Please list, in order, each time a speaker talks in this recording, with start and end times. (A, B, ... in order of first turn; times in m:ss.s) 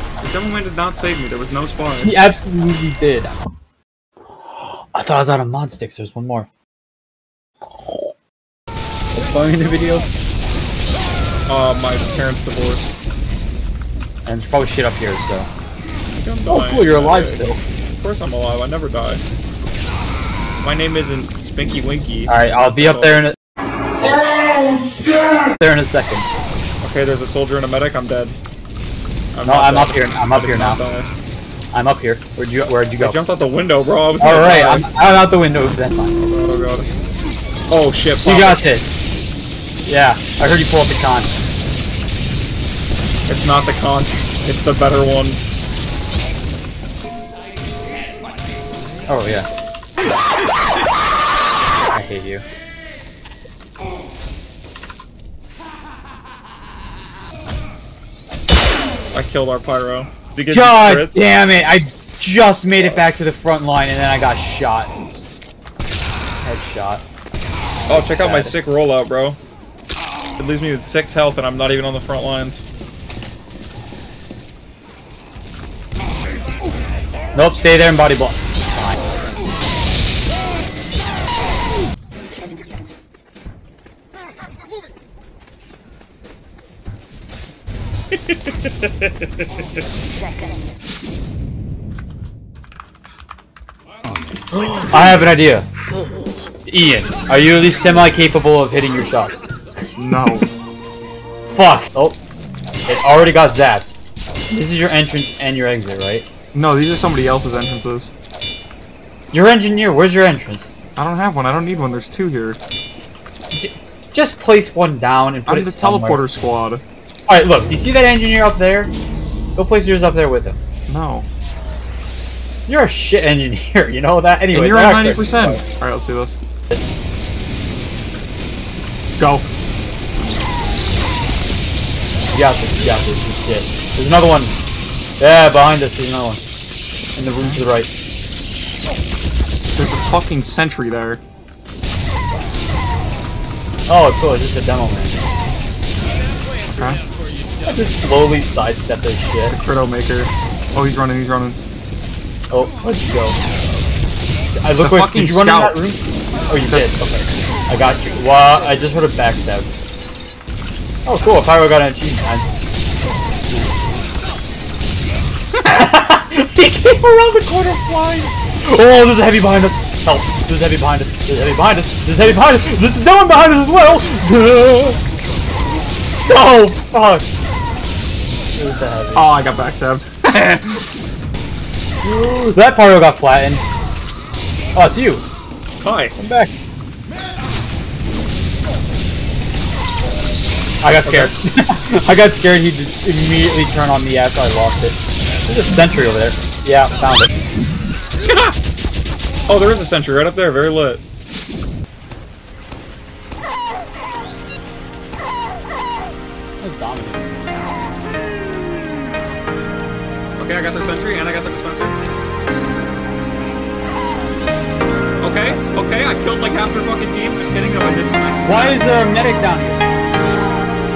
0:00.2-0:02.2 A
0:02.0-0:03.5 B
0:04.5-0:06.5 B
0:07.6-0:08.1 B
0:09.1-0:10.1 B
0:11.5-0:13.0 A
0:14.2-0:15.5 B
0:16.2-0:17.4 A
0:16.5-0:17.6 B
0:17.9-0:19.2 A
0:20.6-0:23.3 A
0:22.3-0:23.4 B
0:25.6-0:26.3 B
0:26.8-0:28.3 A
0:29.3-0:31.1 A
0:29.4-0:30.8 B
0:31.7-0:33.4 B
0:33.0-0:34.9 A
0:34.2-0:36.2 B
0:36.2-0:36.9 A
0:37.7-0:38.6 A
0:38.2-0:38.8 B
0:39.8-0:41.3 B
0:43.3-0:45.4 A
0:49.1-0:49.5 B
0:51.9-0:52.4 B
0:59.1-1:01.3 A
1:00.5-1:05.1 B
1:06.4-1:07.0 B
1:07.9-1:09.4 A
1:07.9-1:08.5 B
1:10.4-1:12.6 A
1:17.3-1:19.0 B
1:34.7-1:35.6 B
1:36.6-1:39.4 B
1:40.0-1:40.5 A
1:41.5-1:42.2 B
1:42.9-1:43.9 B
1:44.5-1:46.3 B
1:46.5-1:48.1 A
1:49.3-1:50.7 B
1:51.0-1:52.6 A
1:53.5-1:56.2 B
1:55.4-1:56.8 A
1:57.3-1:58.9 B
1:59.6-2:00.6 B
2:00.9-2:01.3 A
2:02.7-2:05.6 B
2:04.5-2:06.4 A
2:09.2-2:09.4 A
2:12.3-2:14.6 B
2:15.2-2:16.4 B
2:17.2-2:17.9 B
2:17.2-2:17.6 A
2:19.7-2:21.2 A
2:23.9-2:25.2 B
2:26.6-2:27.0 A
2:27.6-2:29.6 B
2:29.5-2:31.6 A
2:32.5-2:33.4 B
2:34.6-2:39.7 B
2:34.8-2:35.8 A
2:36.7-2:37.1 A
2:41.0-2:42.5 B
2:45.6-2:55.0 B
2:56.2-2:57.3 B
2:58.6-2:59.3 B
2:59.1-3:00.8 A
3:02.0-3:03.6 B
3:04.7-3:05.2 B
3:05.8-3:06.2 A
3:06.2-3:06.5 B
3:10.8-3:17.3 B
3:11.0-3:11.3 A
3:18.2-3:18.5 A
3:19.5-3:21.0 A
3:26.6-3:27.4 B
3:30.4-3:31.9 A
3:35.2-3:38.8 A
3:38.4-3:39.8 B